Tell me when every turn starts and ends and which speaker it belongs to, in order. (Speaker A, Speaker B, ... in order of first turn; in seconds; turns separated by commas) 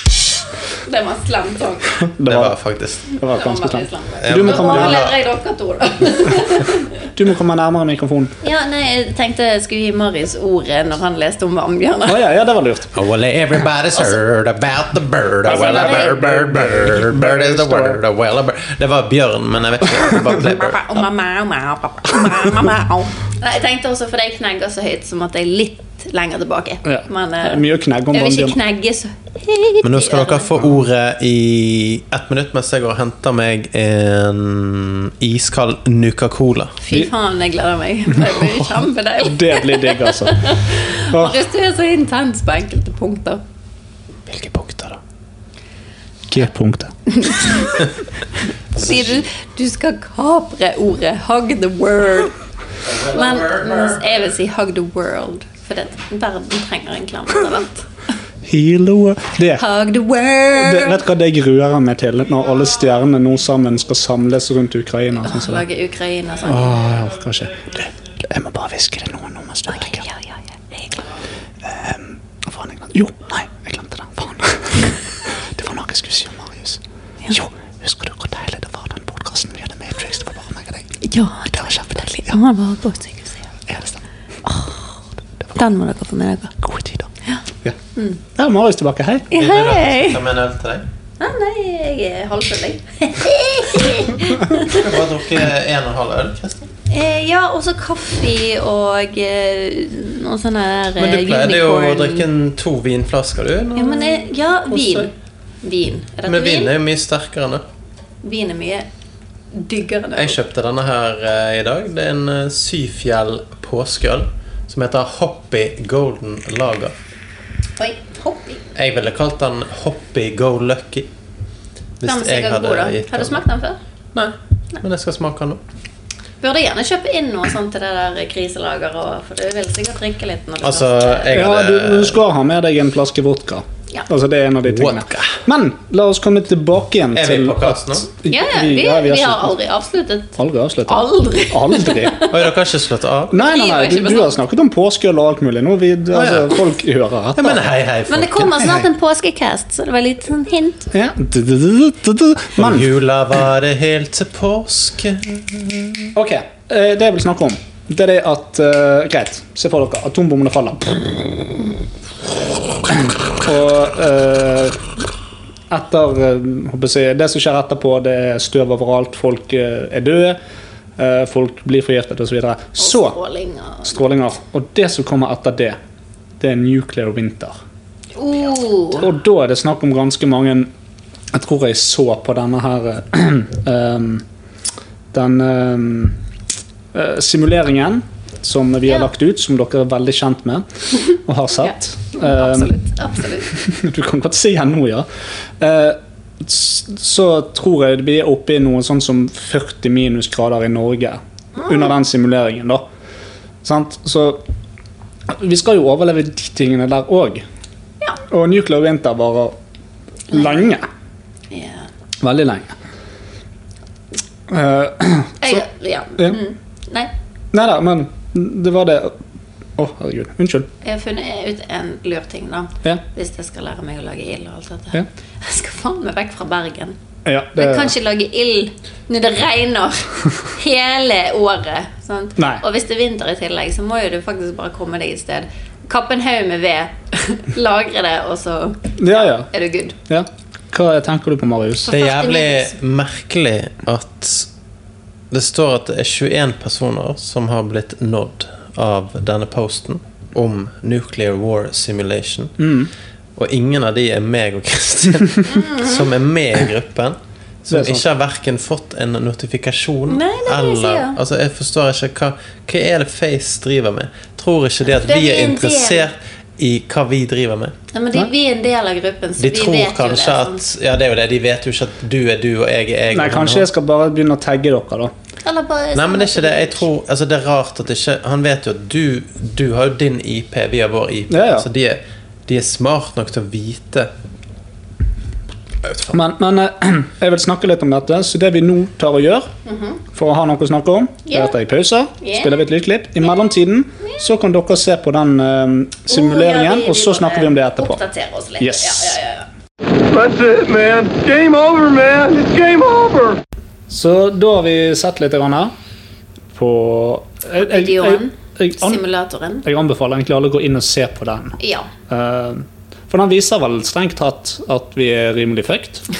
Speaker A: 0.8-2.0, Speaker B: 2.0-2.6, Speaker C: 2.2-3.1, Speaker B: 3.2-5.0, Speaker A: 3.2-7.1, Speaker C: 4.2-5.2, Speaker B: 7.1-8.3, Speaker A: 8.4-12.3, Speaker B: 12.1-12.9, Speaker C: 12.9-21.0, Speaker B: 15.4-18.0, Speaker A: 15.5-16.2, Speaker A: 20.4-30.6, Speaker B: 26.9-28.6, Speaker C: 29.8-36.8, Speaker A: 36.8-43.4, Speaker B: 38.1-40.5, Speaker B: 41.1-41.4, Speaker C: 44.3-45.0, Speaker B: 46.3-46.9, Speaker A: 47.1-47.9, Speaker C: 48.8-49.2, Speaker A: 48.8-52.3, Speaker C: 52.9-54.2, Speaker A: 53.0-58.1, Speaker B: 58.4-59.6, Speaker A: 59.5-61.0, Speaker B: 60.5-65.7, Speaker A: 65.2-66.9, Speaker B: 66.5-70.0, Speaker A: 69.7-70.4, Speaker B: 71.6-76.8, Speaker B: 77.3-81.0, Speaker A: 81.0-83.4, Speaker B: 81.5-82.4, Speaker B: 83.7-84.0, Speaker A: 84.4-85.0, Speaker A: 85.5-86.5, Speaker B: 86.6-87.1, Speaker B: 88.3-89.3, Speaker A: 89.3-90.2, Speaker C: 89.3-90.8, Speaker A: 91.2-94.9, Speaker C: 94.7-96.7, Speaker A: 96.9-102.2, Speaker C: 101.0-105.1, Speaker A: 103.8-105.1, Speaker A: 105.6-106.7, Speaker C: 106.3-107.6, Speaker A: 108.2-108.9, Speaker A: 109.5-110.4, Speaker C: 110.2-117.0, Speaker A: 117.8-118.6, Speaker C: 118.8-121.1, Speaker C: 122.0-123.4, Speaker A: 122.0-123.8, Speaker C: 124.2-125.6, Speaker A: 126.4-131.4, Speaker C: 130.6-132.2, Speaker B: 131.3-139.6, Speaker C: 134.7-135.4, Speaker C: 137.1-138.1, Speaker A: 138.3-142.5, Speaker B: 140.4-142.2, Speaker C: 142.3-143.4, Speaker B: 143.3-147.7, Speaker A: 143.3-144.4, Speaker C: 146.1-146.6, Speaker C: 147.3-148.8, Speaker A: 148.1-150.9, Speaker B: 150.9-152.9, Speaker C: 152.6-156.1, Speaker B: 156.2-161.4, Speaker B: 162.9-164.8, Speaker B: 165.7-170.4, Speaker B: 171.0-173.2, Speaker A: 172.8-174.0, Speaker B: 173.8-175.8, Speaker B: 176.4-177.6, Speaker A: 178.2-179.1, Speaker B: 179.0-180.7, Speaker B: 181.3-184.2, Speaker B: 185.1-186.2, Speaker B: 186.9-192.7, Speaker A: 191.5-193.5, Speaker B: 193.5-195.1, Speaker B: 195.6-202.8, Speaker B: 203.6-204.4, Speaker B: 205.3-207.4, Speaker B: 208.3-209.6, Speaker B: 210.3-210.9, Speaker A: 211.5-211.9, Speaker B: 212.2-212.8, Speaker B: 214.5-215.6, Speaker A: 215.4-217.1, Speaker B: 217.5-219.2, Speaker B: 219.8-220.7, Speaker A: 220.8-227.0, Speaker B: 227.2-227.9, Speaker A: 227.6-240.0, Speaker B: 232.4-232.6, Speaker B: 239.0-239.5, Speaker B: 240.1-241.9, Speaker A: 241.9-242.8, Speaker C: 241.9-244.5, Speaker C: 245.3-252.6, Speaker B: 252.6-252.9, Speaker C: 253.4-267.7, Speaker A: 255.4-256.1, Speaker B: 257.7-258.1, Speaker A: 260.1-261.2, Speaker A: 264.9-266.1, Speaker A: 267.9-270.6, Speaker C: 269.4-273.7, Speaker B: 273.1-275.1, Speaker A: 275.4-276.8, Speaker C: 275.9-284.1, Speaker B: 281.3-281.7, Speaker C: 285.9-286.1, Speaker B: 286.1-289.5, Speaker A: 289.7-290.0, Speaker B: 290.1-298.0, Speaker A: 291.3-291.6, Speaker A: 292.2-292.6, Speaker A: 296.1-299.5, Speaker B: 298.6-299.2, Speaker D: 300.1-303.4, Speaker B: 303.9-305.7, Speaker B: 306.6-309.0, Speaker A: 307.6-309.7, Speaker B: 309.6-311.6, Speaker A: 311.6-311.9, Speaker B: 312.1-316.0